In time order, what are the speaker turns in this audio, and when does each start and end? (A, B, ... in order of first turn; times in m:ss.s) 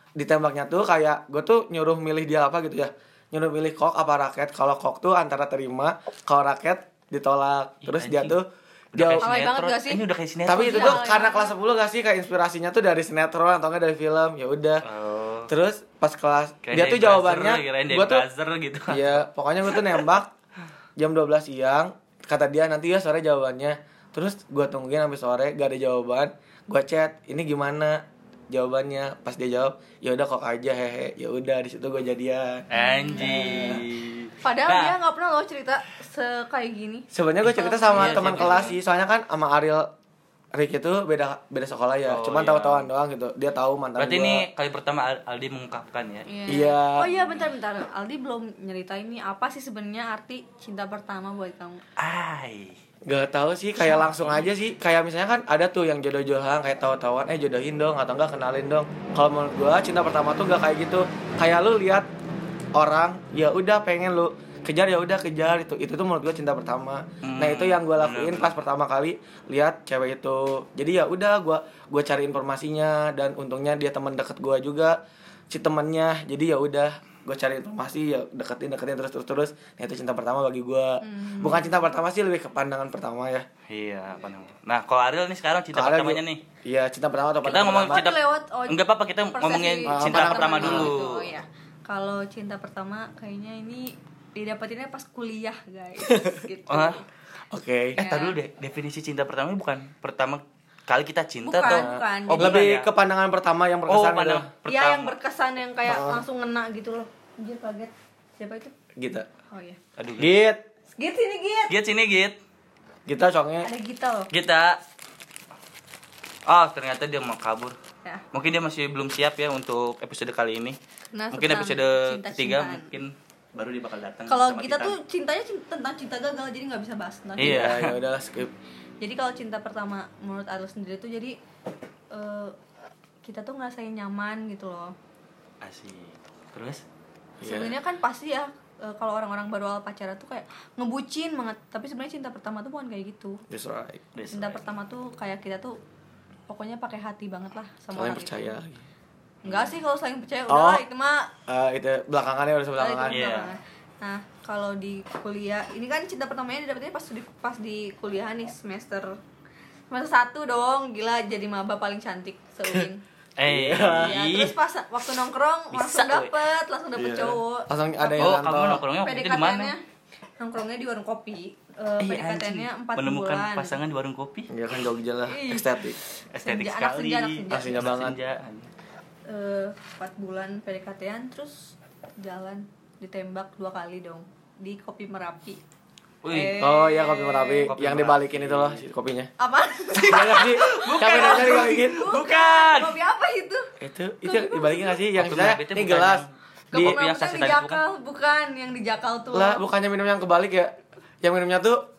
0:00.2-0:09.3 A
0:07.8-0:08.4 B
0:08.9-0:11.0 B
0:09.2-0:11.5 C
0:10.4-0:14.8 A
0:14.8-0:15.5 B
0:15.5-0:18.2 A
0:16.6-0:19.8 B
0:18.9-0:20.3 A
0:21.0-0:33.8 A
0:32.7-0:35.0 B
0:32.8-0:33.8 C
0:34.4-0:38.7 C
0:37.1-0:39.9 A
0:37.9-0:38.8 B
0:40.5-0:44.5 A
0:42.0-0:42.9 B
0:44.0-0:46.3 B
0:46.3-0:51.8 C
0:46.5-0:47.1 A
0:52.0-0:52.8 B
0:53.0-1:02.1 A
1:02.7-1:15.0 A
1:07.2-1:08.6 B
1:15.5-1:23.4 A
1:21.0-1:21.7 C
1:23.7-1:26.4 B
1:25.7-1:28.1 A
1:27.4-1:31.3 B
1:27.5-1:37.0 C
1:29.9-1:30.9 A
1:36.7-1:37.0 B
1:37.5-1:38.0 A
1:38.0-1:38.4 C
1:38.0-1:42.9 B
1:41.4-1:42.6 C
1:41.6-1:44.5 A
1:43.9-1:45.2 B
1:44.6-1:48.7 C
1:45.8-1:46.2 A
1:49.0-1:49.3 A
1:49.5-1:49.8 C
1:50.0-1:50.3 B
1:50.2-1:50.6 A
1:51.0-1:51.7 C
1:51.7-1:52.4 B
1:53.0-1:53.7 A
1:53.6-1:54.3 C
1:54.3-1:54.8 B
1:56.5-1:57.8 B
1:58.3-2:00.8 B
2:01.1-2:02.9 C
2:01.3-2:05.0 B
2:04.3-2:07.6 C
2:07.4-2:08.0 B
2:07.4-2:08.5 A
2:09.0-2:11.4 C
2:12.1-2:12.5 C
2:13.2-2:14.9 C
2:15.6-2:16.8 B
2:17.4-2:17.7 A
2:17.4-2:23.4 C
2:23.5-2:24.0 A
2:24.1-2:24.6 B
2:24.3-2:25.8 C
2:26.5-2:28.5 C
2:27.9-2:28.8 A
2:29.4-2:31.3 C
2:29.4-2:29.8 B
2:30.5-2:30.8 A
2:31.5-2:33.2 A
2:32.8-2:39.2 C
2:33.1-2:33.5 B
2:39.9-2:43.0 C
2:43.4-2:44.5 B
2:43.5-2:44.2 A
2:44.0-2:47.7 C
2:45.7-2:46.4 B
2:46.9-2:48.8 A
2:48.1-2:49.7 B
2:49.0-2:49.8 C
2:50.4-2:53.8 C
2:52.0-2:54.5 B
2:54.5-2:56.0 A
2:55.3-2:57.9 C
2:56.3-2:58.7 B
2:57.5-2:58.2 A
2:59.3-3:05.6 C
3:06.2-3:06.6 B
3:06.3-3:07.7 C
3:06.6-3:09.3 A
3:07.6-3:08.8 B
3:09.4-3:13.6 C
3:10.0-3:12.1 A
3:10.1-3:13.0 B
3:13.8-3:17.0 A
3:14.2-3:15.0 C
3:15.2-3:17.8 B
3:16.7-3:19.6 C
3:19.3-3:21.8 A